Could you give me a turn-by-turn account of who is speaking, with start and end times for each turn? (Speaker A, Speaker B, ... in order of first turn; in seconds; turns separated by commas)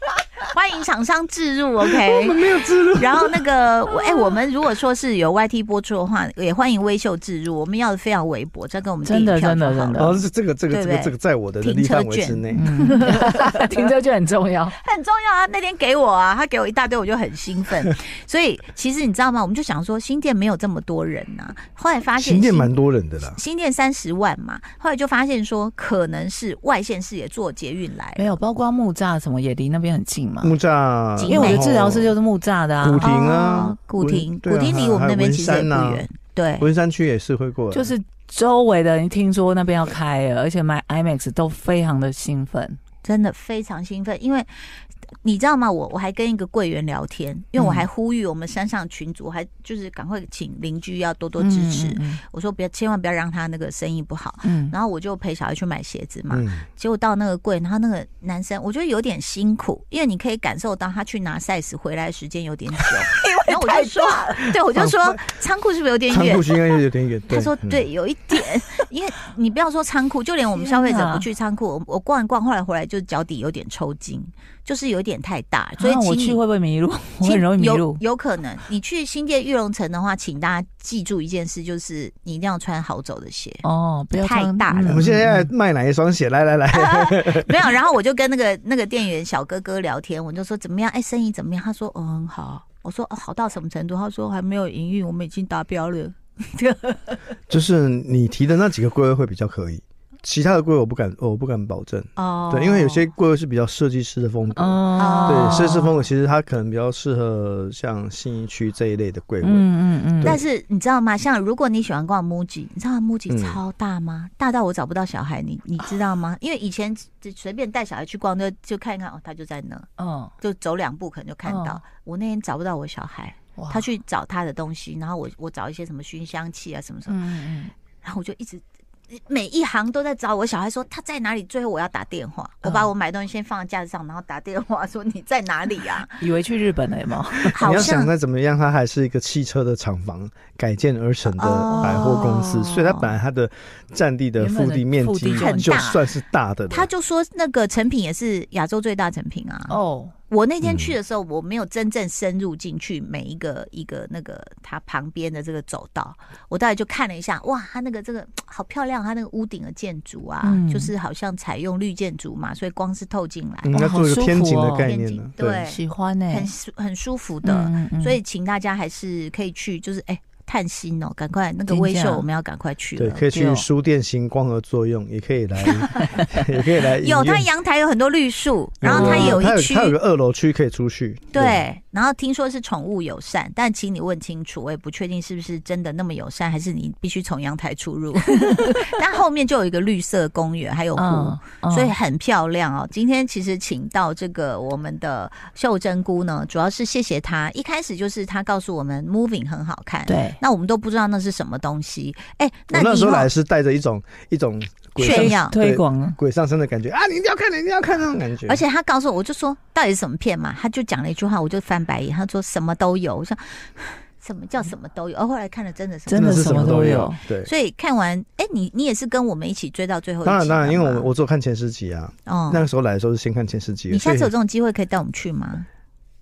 Speaker A: 0.5-10.2, Speaker B: 2.0-3.4, Speaker C: 9.0-10.2, Speaker B: 9.9-12.7, Speaker A: 10.7-13.7, Speaker C: 12.5-14.8, Speaker A: 14.7-22.7, Speaker B: 22.2-23.4, Speaker A: 23.3-28.3, Speaker C: 28.1-30.5, Speaker B: 30.4-32.1, Speaker A: 31.2-31.8, Speaker C: 31.2-33.1, Speaker B: 32.8-36.0, Speaker A: 33.0-36.7, Speaker B: 36.6-37.9, Speaker C: 37.7-42.8, Speaker A: 43.0-44.5, Speaker A: 45.2-66.5, Speaker C: 47.6-47.9, Speaker C: 51.4-52.2, Speaker C: 54.4-54.7, Speaker B: 56.3-56.6, Speaker C: 63.2-64.5, Speaker B: 64.8-65.2, Speaker B: 66.1-67.8, Speaker A: 67.3-76.4, Speaker C: 70.5-71.2, Speaker C: 75.8-78.0, Speaker A: 77.2-85.0, Speaker C: 83.6-85.5, Speaker B: 84.8-87.6, Speaker A: 86.7-97.2, Speaker B: 97.5-110.4, Speaker A: 102.2-103.1, Speaker C: 104.5-106.0, Speaker A: 105.0-105.7, Speaker C: 109.4-110.4, Speaker A: 110.2-119.9, Speaker B: 113.3-113.6, Speaker C: 120.0-120.3, Speaker A: 120.4-127.2, Speaker C: 121.4-121.8, Speaker C: 123.5-123.8, Speaker C: 127.1-127.7, Speaker A: 128.0-136.2, Speaker C: 136.2-137.9, Speaker A: 137.5-138.1, Speaker B: 137.5-146.9, Speaker A: 141.3-143.0, Speaker C: 141.6-142.5, Speaker C: 144.4-146.0, Speaker A: 145.2-145.9, Speaker A: 146.7-149.8, Speaker C: 149.7-150.1, Speaker A: 150.3-163.7, Speaker B: 150.6-150.9, Speaker C: 160.4-160.9, Speaker B: 163.6-165.7, Speaker C: 163.7-164.9, Speaker A: 164.8-173.2, Speaker C: 165.6-166.5, Speaker C: 167.4-168.2, Speaker C: 171.7-172.2, Speaker B: 173.0-177.5, Speaker C: 173.3-173.6, Speaker A: 175.6-175.9, Speaker A: 176.8-179.9, Speaker B: 178.8-181.6, Speaker C: 178.8-179.5, Speaker A: 181.3-203.3, Speaker C: 188.5-188.9, Speaker C: 190.9-191.9, Speaker C: 200.1-200.4, Speaker B: 202.7-208.6, Speaker A: 205.0-205.6, Speaker C: 205.0-206.2, Speaker A: 208.4-216.5, Speaker C: 216.1-217.2, Speaker B: 216.1-217.5, Speaker A: 217.4-221.1, Speaker B: 220.2-224.3, Speaker A: 222.3-222.6, Speaker A: 223.9-225.7